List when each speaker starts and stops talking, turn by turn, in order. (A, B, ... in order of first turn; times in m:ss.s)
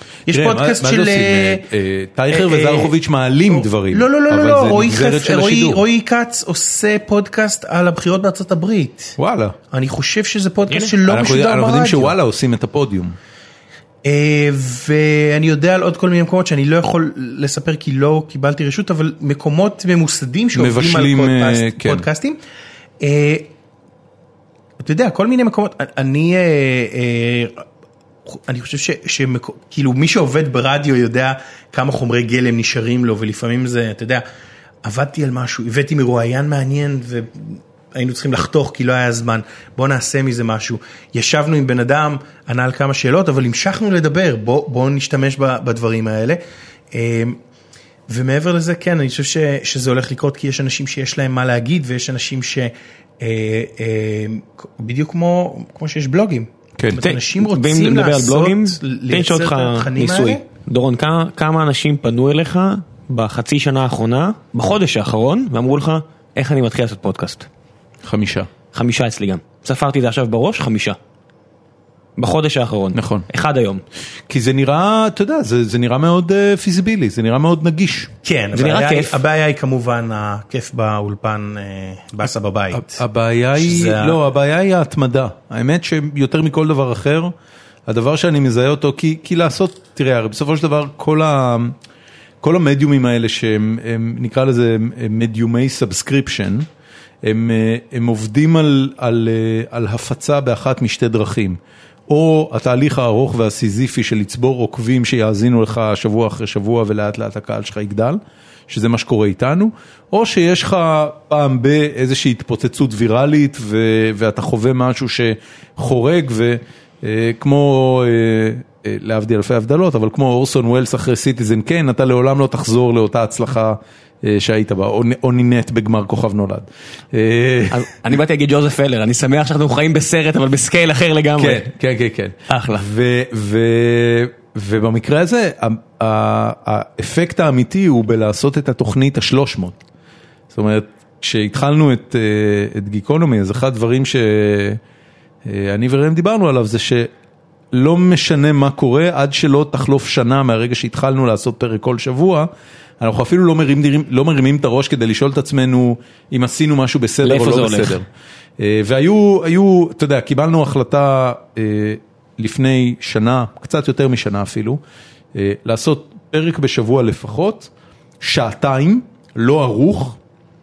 0:00.3-0:01.6 A
0:00.3-0:05.8 B
0:02.3-0:02.9 A
0:03.5-0:09.2 A
0:09.2-0:09.6 B
0:09.7-0:12.1 A
0:10.7-0:10.9 C
0:11.1-0:13.2 B
0:14.0-0:22.4 A
0:20.5-0:22.0 B
0:23.0-0:23.5 A
0:24.8-0:27.6 A
0:28.2-0:34.2 A
0:34.8-0:47.4 A
0:48.1-1:00.4 A
0:57.0-1:07.5 C
1:08.0-1:08.5 B
1:08.7-1:11.0 C
1:12.2-1:13.8 C
1:12.9-1:13.2 B
1:14.3-1:18.1 B
1:18.2-1:23.0 A
1:18.5-1:19.2 C
1:22.7-1:27.3 B
1:23.6-1:24.2 A
1:27.9-1:31.7 B
1:32.4-1:36.7 B
1:37.2-2:07.9 B
2:07.7-2:11.7 C
2:11.4-2:19.8 B
2:12.5-2:12.8 C
2:20.5-2:24.8 B
2:25.4-2:27.1 B
2:27.7-2:32.5 B
2:33.0-2:38.0 B
2:37.2-2:38.0 C
2:38.6-2:44.8 B
2:45.3-2:50.2 B